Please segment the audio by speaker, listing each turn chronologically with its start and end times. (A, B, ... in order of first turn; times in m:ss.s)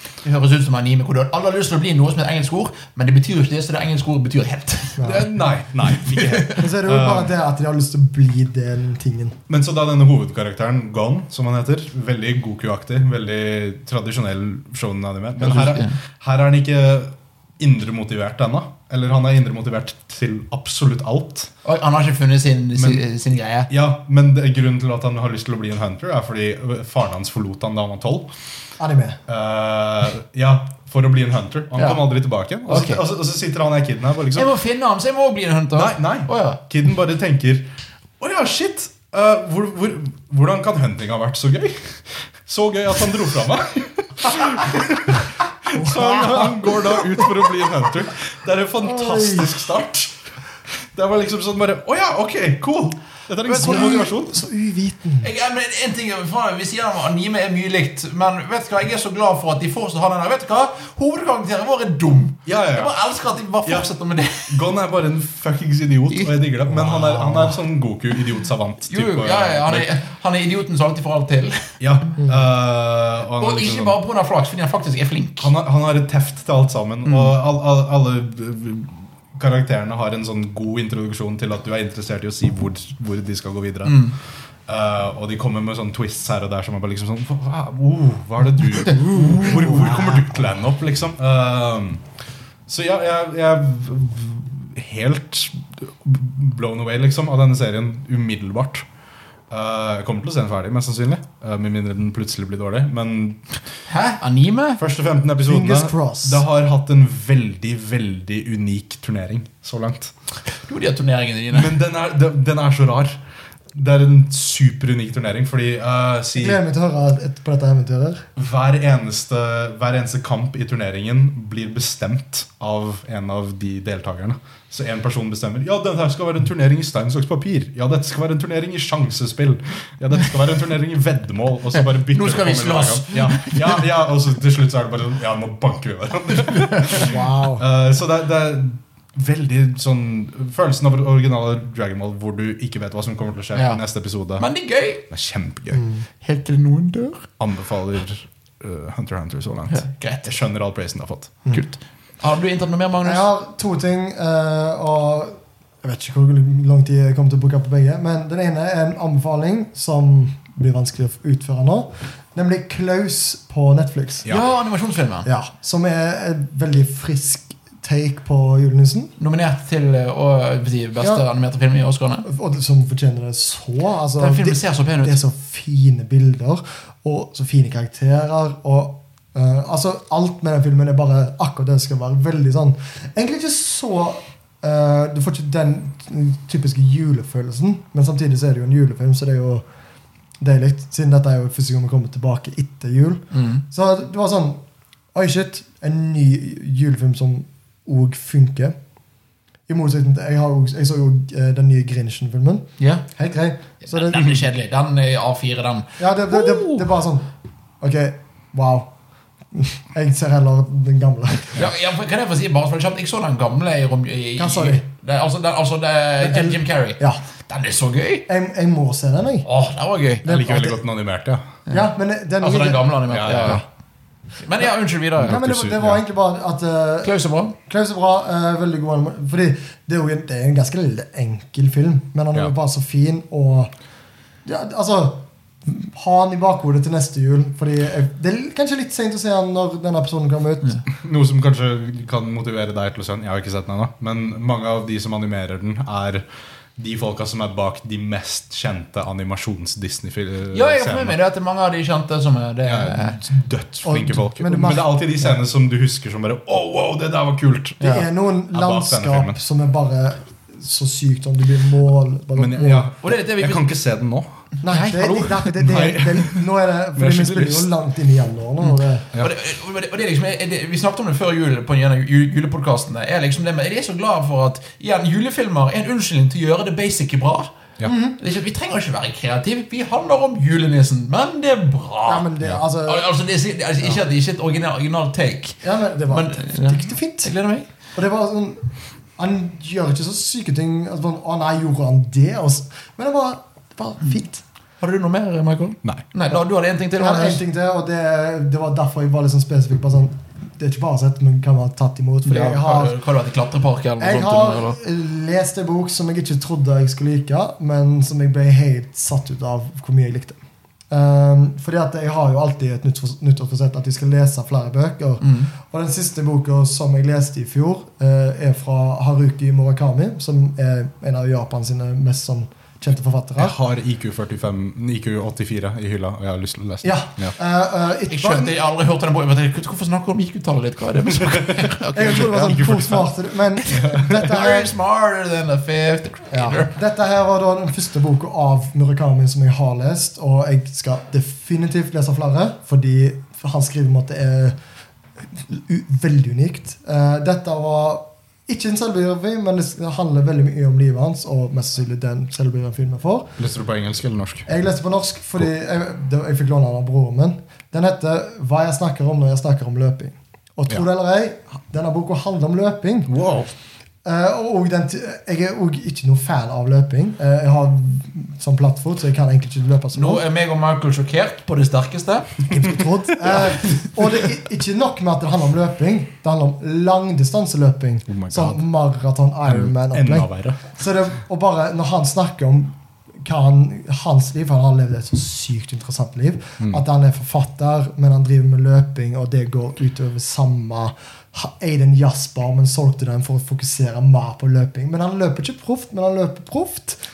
0:00.2-0:05.2 A
0:05.0-0:05.3 B
0:05.0-0:07.3 C
0:05.9-0:06.6 A
0:06.6-0:09.4 B
0:09.5-0:21.5 C
0:15.4-0:16.0 A
0:21.6-0:23.7 A
0:22.8-0:23.0 C
0:23.7-0:28.3 C
0:28.8-0:29.2 B
0:29.3-0:34.5 C
0:31.8-0:32.0 A
0:32.6-0:33.0 A
0:34.3-0:36.6 A
0:35.7-0:50.2 C
0:45.7-0:47.3 B
0:48.8-0:49.6 B
0:50.9-0:54.4 C
0:53.4-0:54.0 A
0:53.5-0:55.3 B
0:55.2-1:04.6 A
1:02.4-1:03.0 C
1:04.4-1:09.9 C
1:06.1-1:07.5 A
1:08.9-1:11.7 A
1:11.8-1:14.0 C
1:13.4-1:15.5 A
1:15.4-1:24.1 C
1:17.0-1:17.3 A
1:23.8-1:24.1 A
1:24.7-1:32.0 C
1:29.0-1:29.8 A
1:32.7-1:38.8 C
1:39.5-1:43.4 C
1:43.9-1:44.8 A
1:44.8-1:50.1 C
1:45.4-1:46.4 B
1:50.6-1:51.7 A
1:51.5-1:53.2 C
1:53.7-1:56.6 C
1:56.3-1:58.2 B
1:58.4-2:24.5 C
2:11.8-2:13.8 A
2:17.0-2:17.6 B
2:23.5-2:23.8 A
2:24.4-2:25.0 A
2:25.0-2:25.8 C
2:25.7-2:26.0 B
2:26.2-2:27.3 A
2:27.4-2:31.4 C
2:29.7-2:30.3 A
2:31.5-2:33.3 A
2:33.0-2:44.3 B
2:44.3-2:45.3 A
2:45.2-2:49.1 B
2:49.2-2:52.3 A
2:52.2-3:09.6 B
2:54.2-2:55.2 A
3:10.4-3:14.6 B
3:13.3-3:13.6 A
3:15.1-3:18.8 B
3:19.7-3:24.4 B
3:22.8-3:23.0 A
3:23.8-3:26.8 A
3:26.0-3:27.3 B
3:27.8-3:28.9 B
3:29.5-3:31.6 B
3:31.5-3:38.3 A
3:34.4-3:34.8 B
3:36.2-3:37.2 B
3:38.3-3:39.5 B
3:39.4-3:40.2 A
3:40.2-3:40.8 B
3:40.2-3:41.5 C
3:41.7-3:43.6 B
3:42.4-3:43.6 A
3:43.1-3:43.6 C
3:44.4-3:45.4 A
3:45.2-3:46.0 C
3:45.2-3:53.7 B
3:47.0-3:47.5 A
3:54.4-4:00.8 B
4:00.9-4:06.2 C
4:06.8-4:11.2 C
4:10.5-4:13.2 A
4:12.6-4:18.0 C
4:13.8-4:15.3 B
4:17.8-4:22.9 B
4:18.5-4:19.4 C
4:22.3-4:24.3 C
4:23.0-4:23.7 A
4:24.6-4:29.1 B
4:24.6-4:25.5 A
4:25.6-4:27.7 C
4:29.1-4:37.5 A
4:37.8-4:38.2 B
4:38.2-4:42.3 A
4:42.0-4:43.1 B
4:42.8-4:47.7 A
4:45.6-4:47.3 B
4:47.9-4:48.6 B
4:49.2-4:54.4 B
4:54.8-4:57.4 A
4:56.9-5:03.0 B
5:02.2-5:04.8 A
5:04.0-5:10.4 B
5:10.9-5:23.6 B
5:15.2-5:15.5 A
5:23.4-5:27.3 C
5:26.8-5:28.5 B
5:28.1-5:32.6 A
5:31.9-5:34.7 B
5:32.2-5:33.1 C
5:33.6-5:34.3 C
5:33.6-5:36.7 A
5:36.3-5:44.6 B
5:45.3-5:53.3 B
5:53.4-5:54.5 C
5:54.5-6:03.1 B
6:03.1-6:03.5 C
6:04.0-6:10.2 B
6:09.9-6:12.4 A
6:12.5-6:37.0 B
6:18.1-6:18.6 C
6:19.4-6:20.7 C